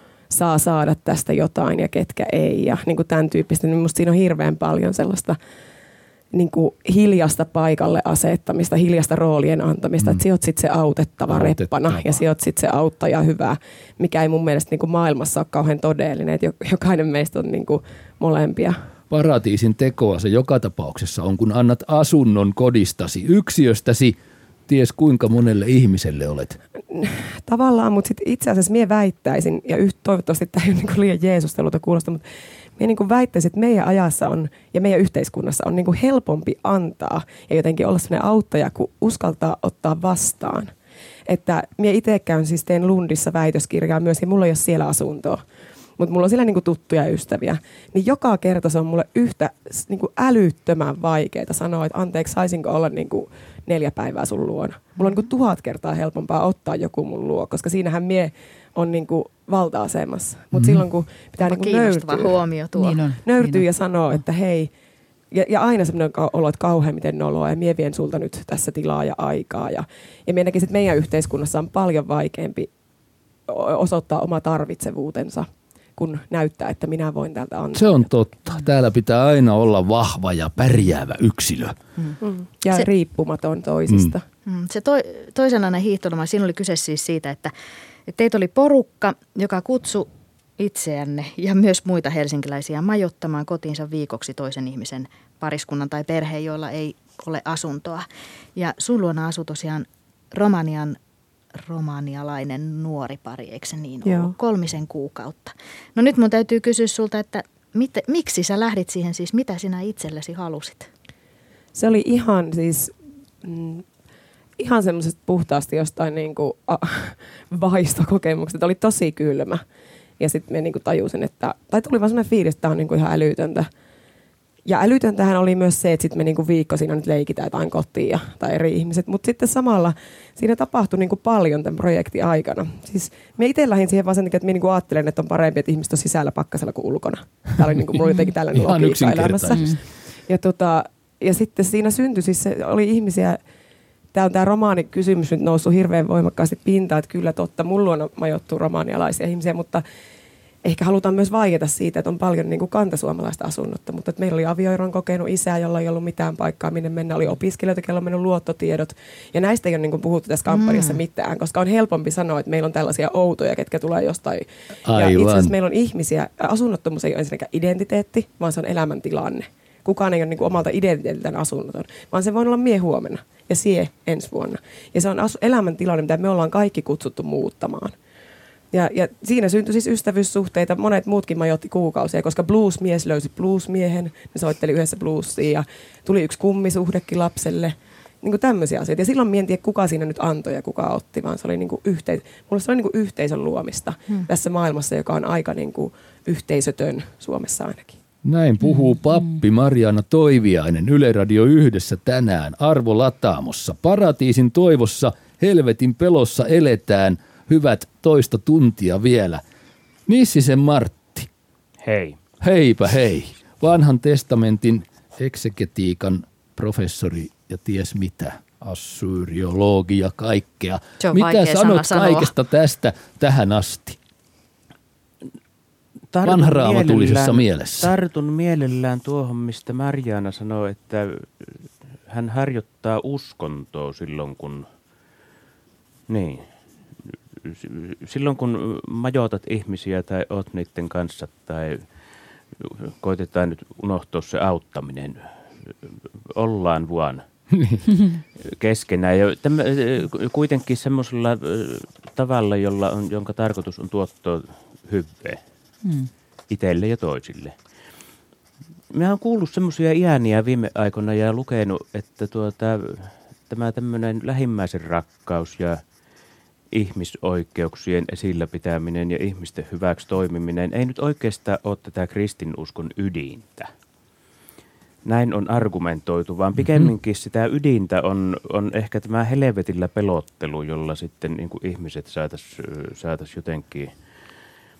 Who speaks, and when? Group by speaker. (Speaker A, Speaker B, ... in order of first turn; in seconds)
Speaker A: 0.3-5.4, 6.3-18.8, 26.9-32.2, 32.8-40.7, 41.3-45.4, 46.0-62.4, 63.1-64.7, 65.3-72.7, 73.5-78.1, 82.2-84.2, 104.0-104.3, 111.7-113.8, 114.6-119.6, 120.2-123.7, 124.6-143.4, 144.1-149.8, 150.6-177.9, 178.7-197.9
Speaker B: 11.3-12.2, 19.1-24.2, 24.7-26.6, 60.5-60.8, 77.7-81.8, 138.5-139.7, 164.8-165.5, 198.2-209.4, 210.1-211.3, 212.4-224.0, 226.2-227.9, 247.5-247.8
Speaker C: 61.4-63.0, 84.5-87.5, 88.1-101.0, 101.5-110.9, 160.5-161.0, 221.0-222.3
Speaker D: 62.8-63.7, 139.5-139.8, 198.6-199.4, 255.8-256.1
Speaker E: 211.8-212.2, 226.1-234.7, 236.1-236.5, 237.4-241.8, 242.6-247.2, 248.4-255.4, 256.5-257.6, 258.9-265.8, 266.7-273.7, 275.0-283.9